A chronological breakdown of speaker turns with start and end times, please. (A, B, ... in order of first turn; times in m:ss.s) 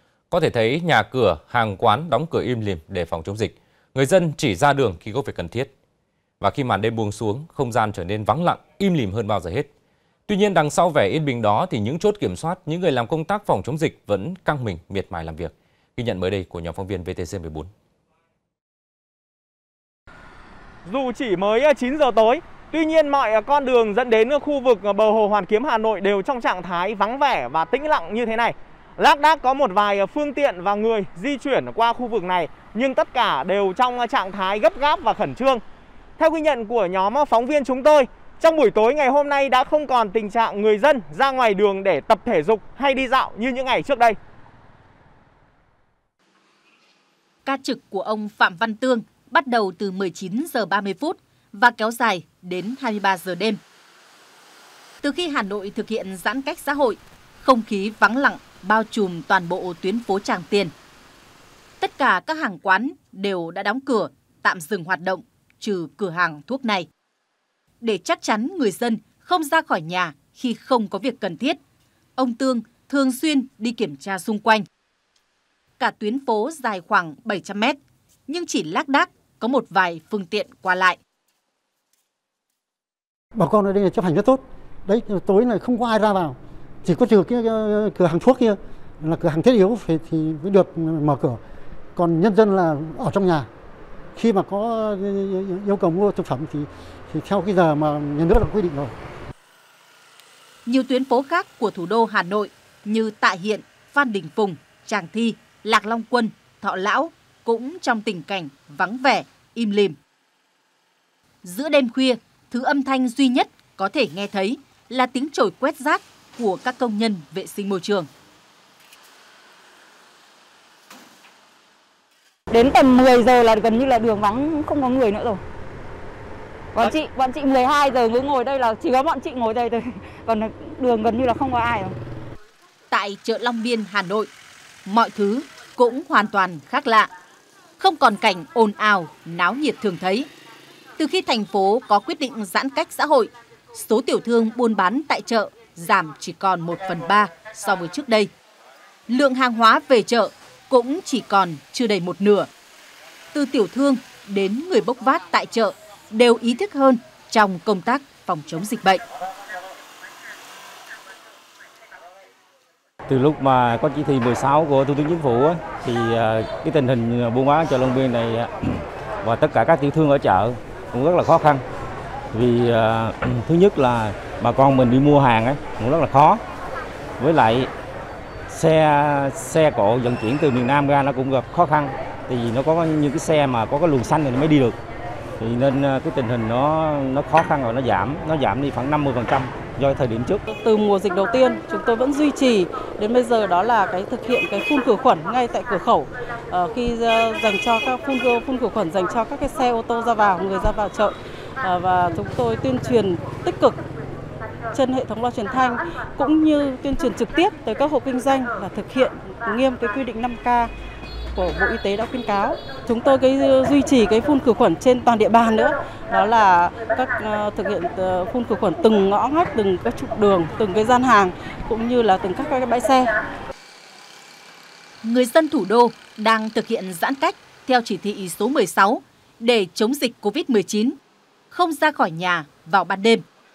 0:00.3-0:05.7 A
0:06.4-0:09.7 A
0:10.3-0:17.7 A
0:20.9-0:35.6 B
0:36.2-0:44.2 B
0:47.5-0:53.6 C
0:55.0-1:00.7 C
1:01.8-1:06.9 C
1:07.8-1:11.6 C
1:12.2-1:14.6 C
1:15.8-1:21.0 C
1:23.3-1:31.4 D
1:32.0-1:33.5 D
1:34.2-1:38.9 D
1:40.7-1:50.0 C
1:51.4-1:58.1 C
2:02.5-2:05.4 E
2:06.8-2:12.0 E
2:12.9-2:14.3 C
2:14.9-2:17.1 C
2:17.8-2:20.3 C
2:21.0-2:28.3 C
2:29.1-2:32.5 C
2:33.3-2:39.0 C
2:43.1-2:51.6 F
2:52.3-2:56.4 F
2:57.2-2:57.7 F
2:58.5-3:04.8 F
3:05.4-3:10.4 F
3:10.5-3:23.8 G
3:24.7-3:30.7 G
3:31.4-3:43.1 G
3:45.0-3:51.0 C
3:51.5-3:53.2 C